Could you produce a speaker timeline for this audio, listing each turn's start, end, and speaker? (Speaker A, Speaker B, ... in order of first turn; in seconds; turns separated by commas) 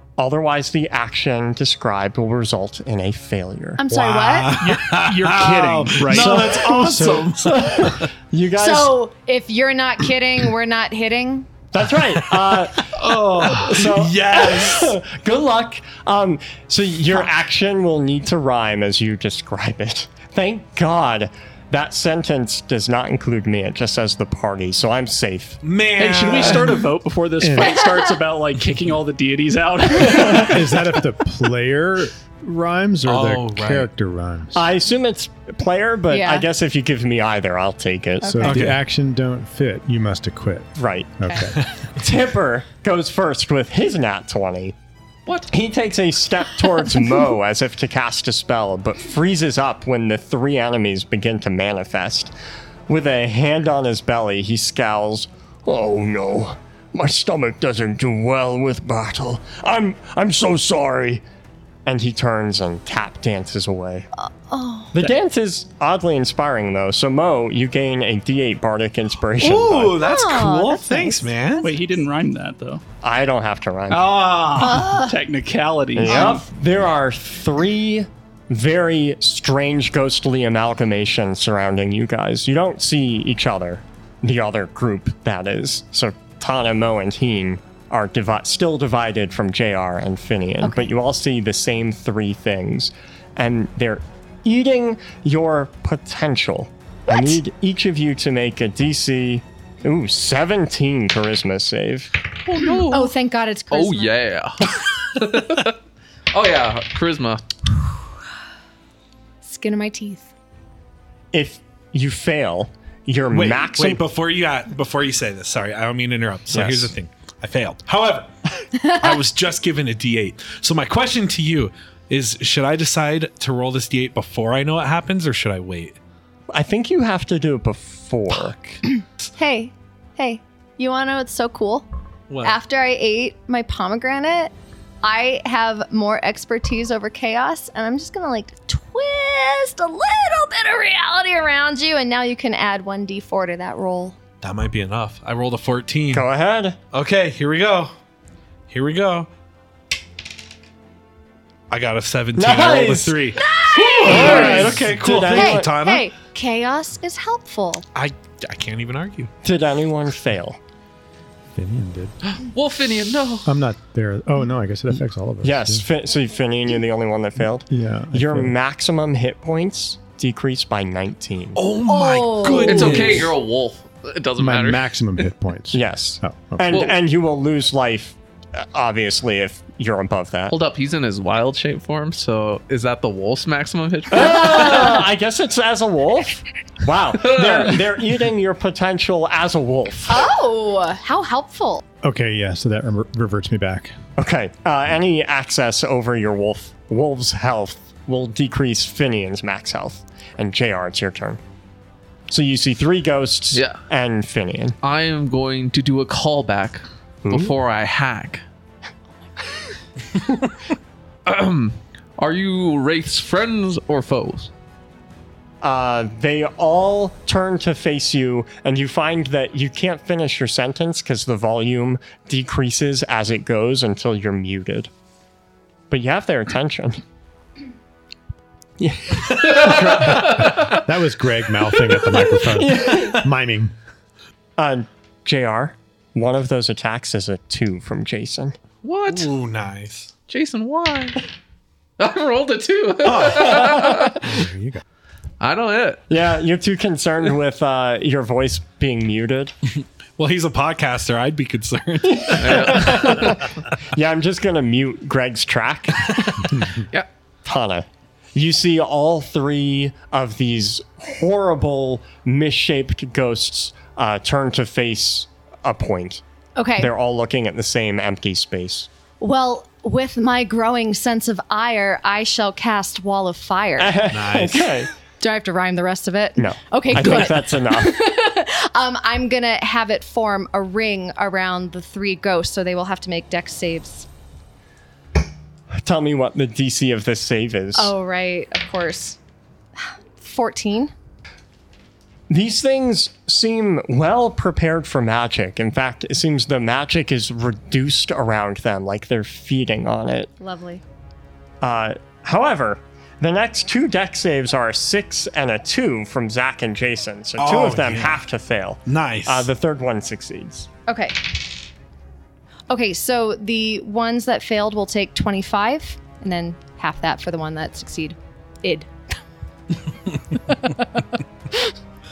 Speaker A: 0.2-3.8, Speaker B: 3.8-4.6, Speaker C: 3.9-8.1, Speaker D: 4.6-6.7, Speaker E: 6.1-7.3, Speaker A: 6.3-8.9, Speaker B: 8.6-11.5, Speaker A: 11.7-25.6, Speaker C: 12.3-15.0, Speaker C: 25.6-26.8, Speaker D: 25.9-30.6, Speaker B: 27.6-28.0, Speaker A: 30.0-30.5, Speaker E: 30.4-34.7, Speaker C: 33.1-33.9, Speaker A: 34.5-38.6, Speaker B: 36.1-36.5, Speaker B: 38.2-38.6, Speaker E: 38.2-41.6, Speaker C: 38.4-38.8, Speaker A: 40.8-41.2, Speaker A: 42.0-44.8, Speaker A: 45.5-52.3, Speaker A: 52.9-61.2, Speaker A: 61.9-64.1, Speaker B: 64.2-65.2, Speaker A: 64.9-70.0, Speaker C: 69.4-71.7, Speaker B: 70.0-71.3, Speaker D: 71.6-72.8, Speaker A: 73.0-74.2, Speaker D: 74.0-76.4, Speaker B: 74.6-75.2, Speaker A: 76.0-102.1, Speaker B: 76.1-76.4, Speaker B: 90.6-90.9, Speaker B: 97.1-97.4, Speaker F: 102.5-103.1, Speaker B: 102.9-104.2, Speaker F: 103.7-105.8, Speaker F: 106.3-107.5, Speaker B: 109.4-110.3, Speaker A: 111.3-114.0, Speaker C: 113.3-126.0, Speaker A: 116.5-116.9, Speaker A: 126.5-128.6, Speaker B: 129.4-131.9, Speaker C: 132.3-132.6, Speaker B: 132.4-144.2, Speaker C: 144.4-146.3, Speaker A: 146.1-146.8, Speaker C: 146.9-147.9, Speaker C: 148.7-149.3, Speaker C: 151.7-156.1, Speaker A: 152.4-153.3, Speaker B: 153.3-157.8, Speaker A: 154.0-155.7, Speaker C: 157.9-159.3, Speaker A: 159.4-160.6, Speaker E: 161.6-162.2, Speaker F: 162.3-163.5, Speaker E: 163.4-165.9, Speaker A: 165.4-171.6, Speaker E: 167.7-168.6, Speaker C: 171.6-173.3, Speaker B: 171.9-173.2, Speaker F: 172.7-175.2, Speaker E: 174.4-176.8, Speaker A: 175.7-180.5, Speaker F: 176.7-176.9, Speaker F: 180.5-185.0, Speaker A: 184.1-190.3, Speaker F: 187.2-187.8, Speaker B: 190.1-191.8, Speaker E: 192.0-194.0, Speaker A: 194.2-201.4, Speaker A: 202.3-204.8, Speaker F: 203.5-203.8, Speaker F: 204.8-208.4, Speaker A: 207.2-207.5, Speaker F: 211.2-214.5, Speaker A: 215.6-224.9, Speaker A: 225.9-227.0, Speaker A: 228.8-230.6, Speaker F: 229.6-230.8, Speaker E: 229.6-233.7, Speaker A: 232.3-233.3, Speaker A: 234.6-238.6, Speaker F: 238.8-239.3, Speaker C: 239.1-240.1, Speaker F: 240.3-241.2, Speaker F: 242.0-244.2, Speaker C: 243.0-243.6, Speaker A: 243.6-244.1, Speaker E: 244.2-244.8, Speaker F: 245.4-246.0, Speaker A: 246.1-249.6, Speaker C: 250.2-253.1, Speaker A: 252.1-256.8, Speaker F: 252.4-253.4, Speaker A: 257.4-266.2, Speaker B: 266.6-266.9, Speaker A: 266.8-268.9, Speaker B: 269.2-274.0, Speaker A: 273.8-274.9, Speaker C: 274.1-274.7, Speaker B: 275.2-284.1, Speaker A: 276.4-278.0, Speaker A: 285.7-287.9, Speaker B: 287.8-289.2, Speaker B: 289.8-290.9, Speaker A: 292.3-300.3, Speaker B: 300.4-300.8, Speaker A: 301.6-310.7, Speaker C: 307.4-308.2, Speaker C: 308.9-309.5, Speaker B: 310.9-311.4, Speaker B: 312.7-318.9